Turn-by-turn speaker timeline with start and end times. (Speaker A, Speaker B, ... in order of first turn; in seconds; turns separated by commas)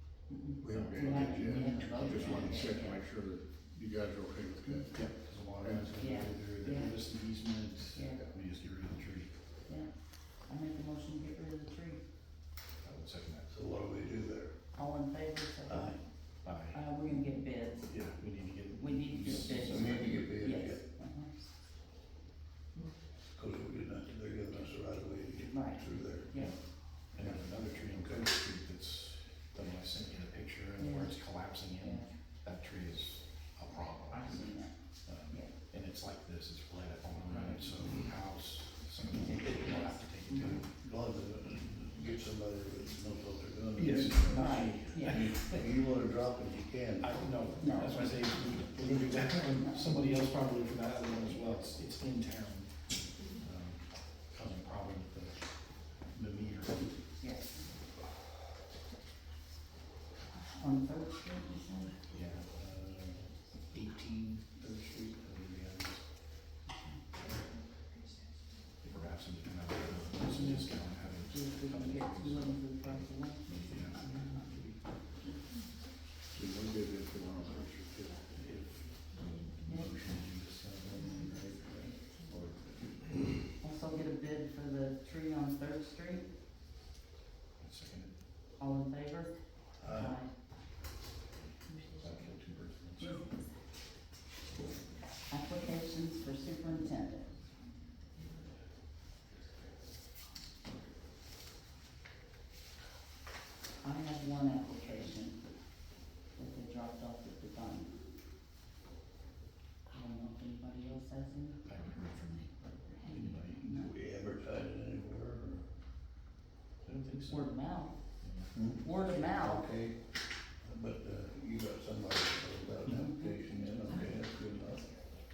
Speaker A: 0.3-3.0, Speaker B: 0.6-5.1, Speaker C: 0.7-2.8, Speaker C: 4.9-9.3, Speaker B: 5.6-6.0, Speaker A: 6.0-7.0, Speaker A: 8.0-8.2, Speaker A: 10.5-12.0, Speaker C: 12.8-13.5, Speaker D: 13.5-14.5, Speaker A: 14.8-16.0, Speaker D: 15.7-16.0, Speaker C: 16.4-16.8, Speaker A: 16.7-17.9, Speaker C: 17.9-20.3, Speaker A: 18.8-21.4, Speaker D: 19.3-20.8, Speaker D: 23.4-26.3, Speaker A: 25.5-26.6, Speaker C: 27.1-34.5, Speaker D: 27.2-28.3, Speaker A: 30.8-31.1, Speaker A: 31.8-32.1, Speaker A: 34.1-34.7, Speaker C: 35.1-40.7, Speaker D: 39.4-47.3, Speaker A: 39.4-40.6, Speaker C: 43.8-45.4, Speaker A: 44.3-45.6, Speaker C: 47.0-52.7, Speaker A: 47.6-48.1, Speaker A: 48.9-50.2, Speaker C: 53.4-55.4, Speaker C: 56.1-56.9, Speaker A: 57.2-57.6, Speaker A: 60.5-62.0, Speaker C: 62.1-66.0, Speaker A: 66.7-67.0, Speaker C: 68.8-74.8, Speaker A: 70.2-74.5, Speaker B: 76.3-78.2, Speaker C: 78.3-82.6, Speaker A: 79.7-79.9, Speaker A: 81.0-81.9, Speaker B: 82.3-83.1, Speaker A: 83.6-86.3, Speaker C: 87.6-88.1, Speaker A: 88.6-90.3, Speaker D: 89.8-90.1, Speaker A: 91.7-92.0, Speaker C: 92.0-93.3, Speaker A: 95.3-97.3, Speaker A: 103.8-105.4, Speaker A: 106.3-107.9, Speaker A: 109.9-111.6, Speaker C: 111.7-113.8, Speaker A: 112.9-113.9, Speaker D: 113.7-115.7, Speaker C: 116.8-117.5, Speaker A: 117.2-118.0, Speaker C: 118.2-118.5, Speaker D: 118.5-120.0, Speaker A: 118.8-119.7, Speaker D: 120.6-124.8, Speaker A: 122.9-124.1